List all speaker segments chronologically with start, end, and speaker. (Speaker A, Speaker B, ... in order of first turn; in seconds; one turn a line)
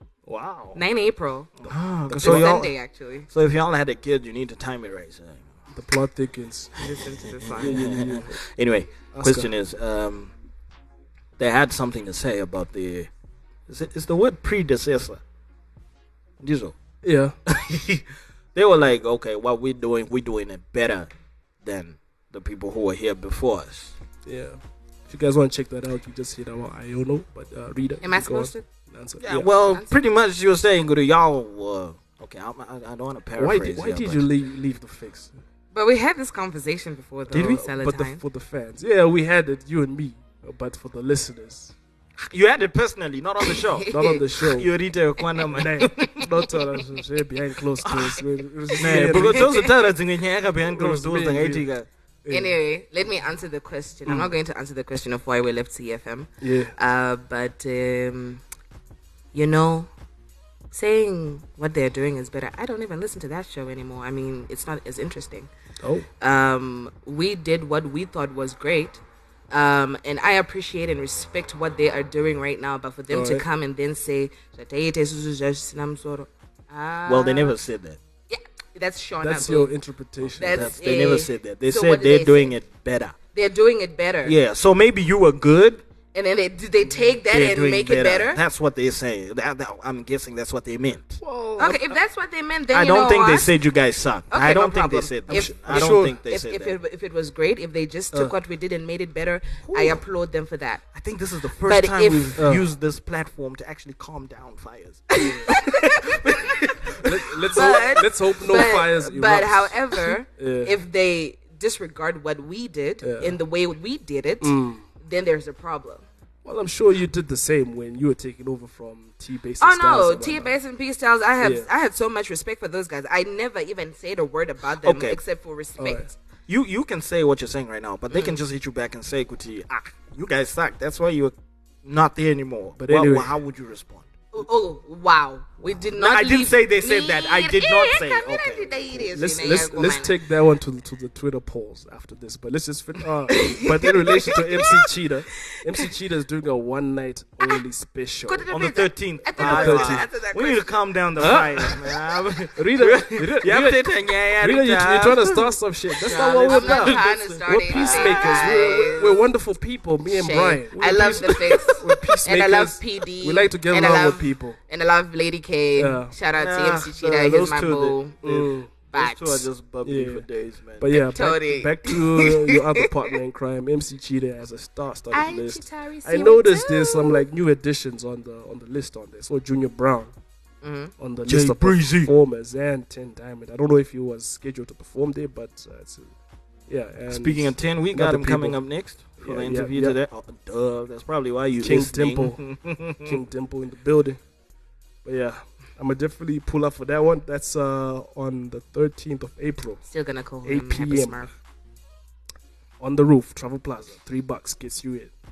Speaker A: 0.3-0.8
Speaker B: 0.7-1.5
Speaker C: 1.6-2.8
Speaker A: 1.6-2.6
Speaker B: 2.1-3.3
Speaker C: 3.3-5.6
Speaker A: 5.7-6.7
Speaker B: 6.8-7.8
Speaker C: 7.2-10.3
Speaker A: 7.6-8.4
Speaker A: 9.1-9.5
Speaker C: 11.4-13.1
Speaker C: 13.7-15.2
Speaker C: 16.4-16.8
Speaker A: 17.0-17.4
Speaker C: 17.5-21.1
Speaker C: 21.6-24.0
Speaker A: 24.2-29.5
Speaker B: 28.0-28.6
Speaker C: 29.2-34.2
Speaker B: 29.6-29.9
Speaker A: 33.4-35.4
Speaker B: 35.7-38.2
Speaker C: 37.3-37.6
Speaker A: 37.3-41.8
Speaker C: 42.2-43.9
Speaker B: 43.5-44.2
Speaker A: 43.9-44.7
Speaker C: 44.4-46.2
Speaker B: 45.4-47.0
Speaker A: 45.5-49.7
Speaker C: 47.8-48.2
Speaker B: 48.7-49.7
Speaker C: 48.8-51.9
Speaker A: 50.6-51.6
Speaker A: 52.2-52.6
Speaker B: 52.3-58.4
Speaker A: 54.1-54.3
Speaker A: 56.4-56.8
Speaker B: 59.3-59.9
Speaker B: 60.7-65.5
Speaker A: 65.8-66.1
Speaker B: 66.2-77.6
Speaker A: 73.1-73.5
Speaker C: 77.1-78.0
Speaker B: 78.3-79.7
Speaker A: 79.2-80.7
Speaker B: 80.4-82.6
Speaker C: 80.4-83.2
Speaker B: 83.3-84.4
Speaker C: 84.2-85.8
Speaker B: 86.1-88.4
Speaker C: 87.3-91.2
Speaker A: 91.2-92.0
Speaker B: 91.6-93.5
Speaker C: 92.7-96.8
Speaker B: 94.3-100.8
Speaker A: 95.3-96.1
Speaker C: 99.6-100.0
Speaker C: 100.9-105.2
Speaker B: 101.7-102.4
Speaker A: 102.4-102.7
Speaker A: 105.2-105.7
Speaker B: 105.2-106.2
Speaker C: 106.0-107.7
Speaker A: 107.0-110.8
Speaker B: 107.5-116.1
Speaker A: 113.0-113.4
Speaker A: 114.4-114.8
Speaker A: 116.5-120.5
Speaker B: 119.6-126.1
Speaker A: 121.4-121.7
Speaker C: 124.8-125.2
Speaker A: 125.8-126.1
Speaker C: 126.5-134.1
Speaker A: 132.8-133.4
Speaker B: 134.3-140.2
Speaker C: 135.8-139.7
Speaker A: 139.1-148.5
Speaker B: 143.3-144.8
Speaker B: 148.3-151.4
Speaker C: 148.5-155.5
Speaker A: 149.4-150.1
Speaker A: 151.2-151.8
Speaker A: 152.6-153.8
Speaker A: 154.4-164.6
Speaker B: 156.0-159.2
Speaker C: 156.1-158.9
Speaker B: 160.1-168.2
Speaker C: 160.7-161.8
Speaker A: 165.8-166.1
Speaker C: 166.3-170.9
Speaker A: 168.2-168.7
Speaker B: 168.9-169.5
Speaker A: 169.8-170.3
Speaker A: 170.8-180.1
Speaker B: 170.9-172.6
Speaker B: 175.1-177.2
Speaker B: 180.6-180.9
Speaker A: 181.0-186.1
Speaker C: 181.2-182.1
Speaker A: 186.7-188.6
Speaker C: 187.1-193.2
Speaker A: 189.2-190.0
Speaker A: 191.6-194.2
Speaker A: 195.0-199.8
Speaker B: 199.8-201.3
Speaker A: 200.4-201.3
Speaker A: 202.8-205.1